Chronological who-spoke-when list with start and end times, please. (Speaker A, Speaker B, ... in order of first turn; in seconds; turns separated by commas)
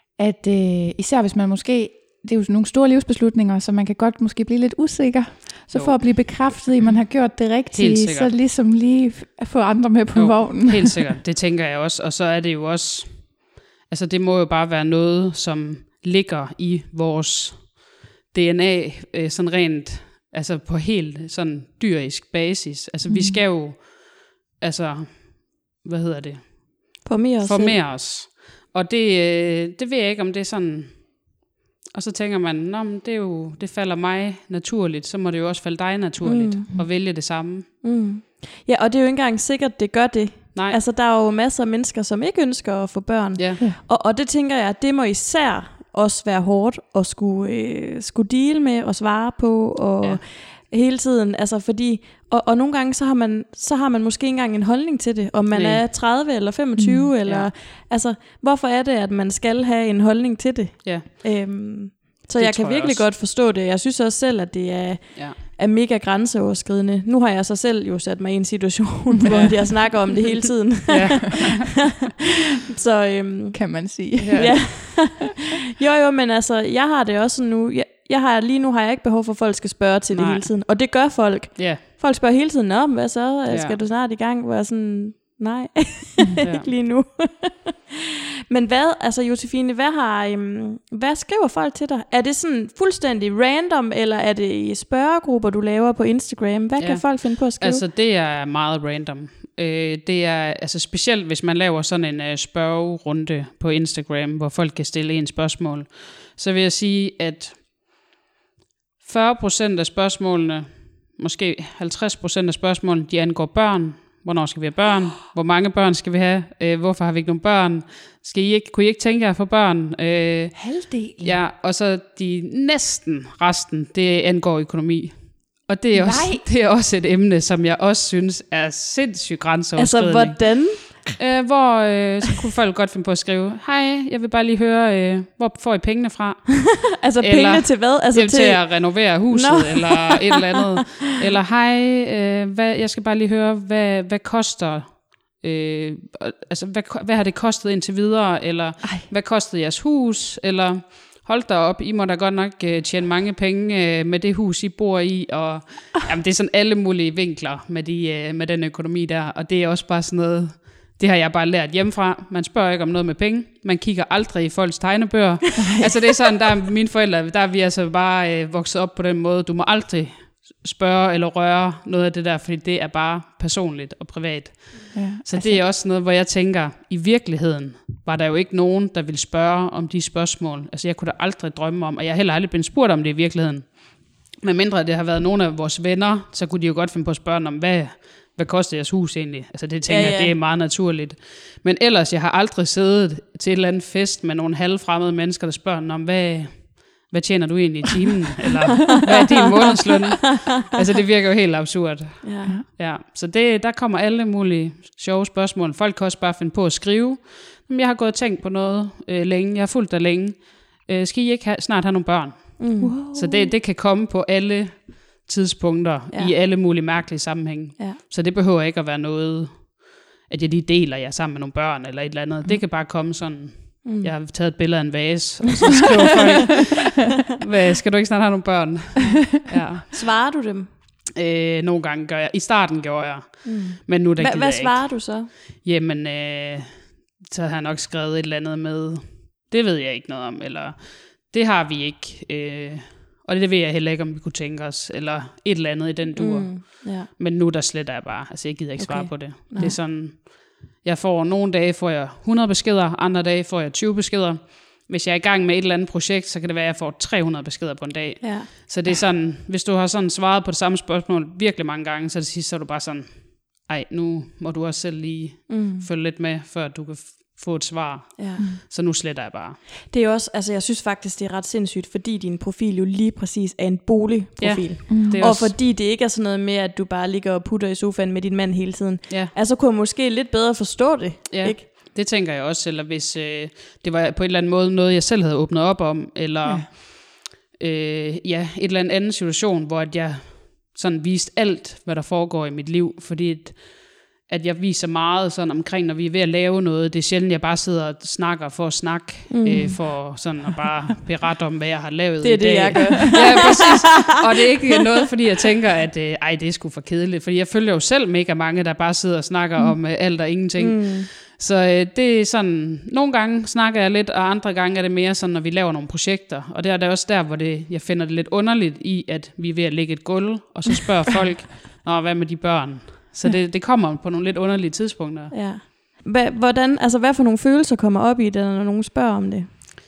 Speaker A: 0.2-11.1, Speaker B: 5.7-6.5, Speaker B: 7.7-8.3, Speaker B: 10.2-37.7, Speaker A: 23.1-23.4, Speaker C: 27.0-27.8, Speaker C: 36.2-37.1, Speaker C: 37.8-71.7, Speaker B: 43.4-43.6, Speaker B: 55.5-55.8, Speaker A: 56.8-57.1, Speaker B: 57.2-57.5, Speaker B: 62.4-63.0, Speaker A: 69.2-69.5, Speaker B: 69.3-69.9, Speaker B: 70.9-71.9, Speaker C: 72.7-87.9, Speaker A: 73.5-75.1, Speaker B: 74.2-74.7, Speaker B: 80.1-80.6, Speaker B: 81.6-81.8, Speaker B: 83.5-83.8, Speaker B: 86.4-86.7, Speaker C: 88.5-97.8, Speaker B: 96.8-107.8, Speaker B: 109.0-229.9, Speaker A: 120.5-121.4, Speaker A: 125.9-126.5, Speaker C: 129.8-131.1, Speaker C: 136.7-140.4, Speaker A: 174.9-175.6, Speaker C: 189.9-190.3, Speaker C: 202.2-202.6, Speaker C: 212.6-212.9, Speaker A: 212.8-213.5, Speaker C: 223.8-224.1, Speaker C: 229.9-230.7, Speaker B: 231.2-269.6, Speaker C: 233.4-235.3, Speaker C: 246.2-247.1, Speaker C: 248.8-249.8, Speaker C: 258.2-258.5, Speaker C: 265.5-265.9, Speaker C: 268.2-268.4, Speaker C: 269.9-281.6, Speaker B: 274.4-275.6, Speaker A: 274.9-275.3, Speaker B: 279.1-279.3, Speaker B: 281.3-325.6, Speaker C: 299.3-299.9, Speaker C: 302.2-304.1, Speaker A: 302.8-303.4, Speaker C: 310.6-311.1, Speaker C: 325.3-329.5